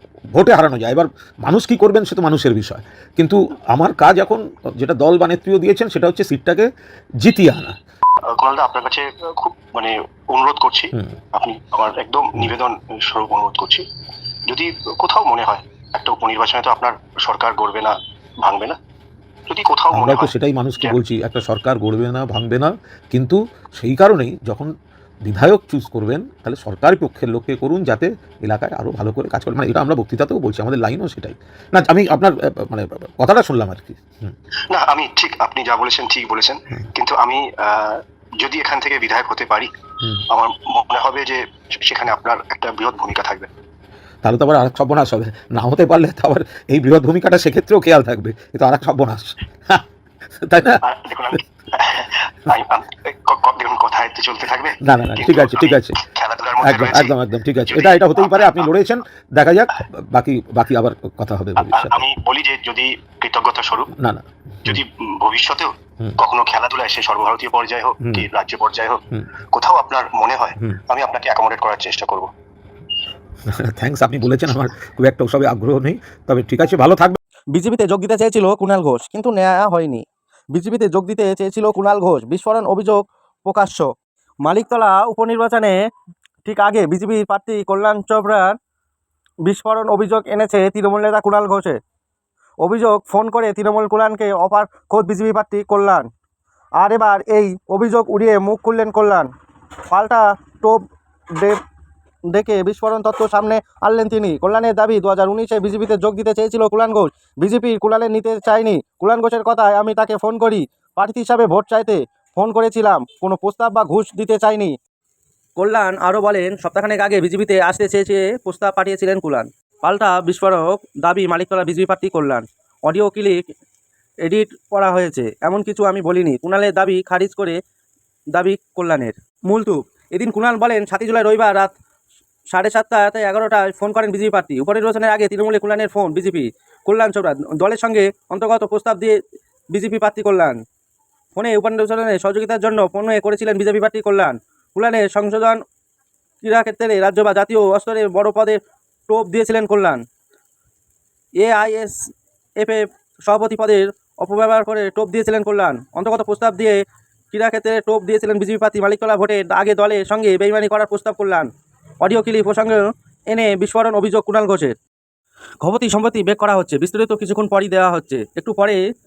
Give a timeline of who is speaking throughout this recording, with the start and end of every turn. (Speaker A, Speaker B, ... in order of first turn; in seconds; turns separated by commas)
Speaker A: 0.3-6.7, Speaker A: 7.2-7.8, Speaker B: 8.3-13.8, Speaker B: 14.5-18.8, Speaker B: 19.5-21.0, Speaker A: 19.9-24.7, Speaker A: 25.2-34.3, Speaker B: 34.7-39.7, Speaker B: 40.3-43.5, Speaker A: 44.2-49.8, Speaker A: 50.4-50.8, Speaker B: 50.8-57.1, Speaker A: 54.8-56.0, Speaker A: 56.6-62.0, Speaker B: 57.7-58.7, Speaker B: 61.7-63.9, Speaker A: 63.9-64.8, Speaker B: 64.7-69.0, Speaker A: 68.0-68.3, Speaker B: 69.5-72.3, Speaker A: 73.5-77.2, Speaker C: 77.5-80.0, Speaker C: 80.5-83.9, Speaker C: 84.4-85.7, Speaker C: 86.4-88.5, Speaker C: 89.5-91.8, Speaker C: 92.6-96.1, Speaker C: 96.8-99.3, Speaker C: 99.9-100.8, Speaker C: 102.3-114.7, Speaker C: 115.6-123.4, Speaker C: 124.2-127.6, Speaker C: 128.3-131.7, Speaker C: 132.5-139.1, Speaker C: 139.7-140.6, Speaker C: 141.3-145.6, Speaker C: 146.4-148.6, Speaker C: 149.1-150.0, Speaker C: 151.4-152.0, Speaker C: 152.6-156.8, Speaker C: 157.3-161.5, Speaker C: 162.0-164.7, Speaker C: 165.6-168.8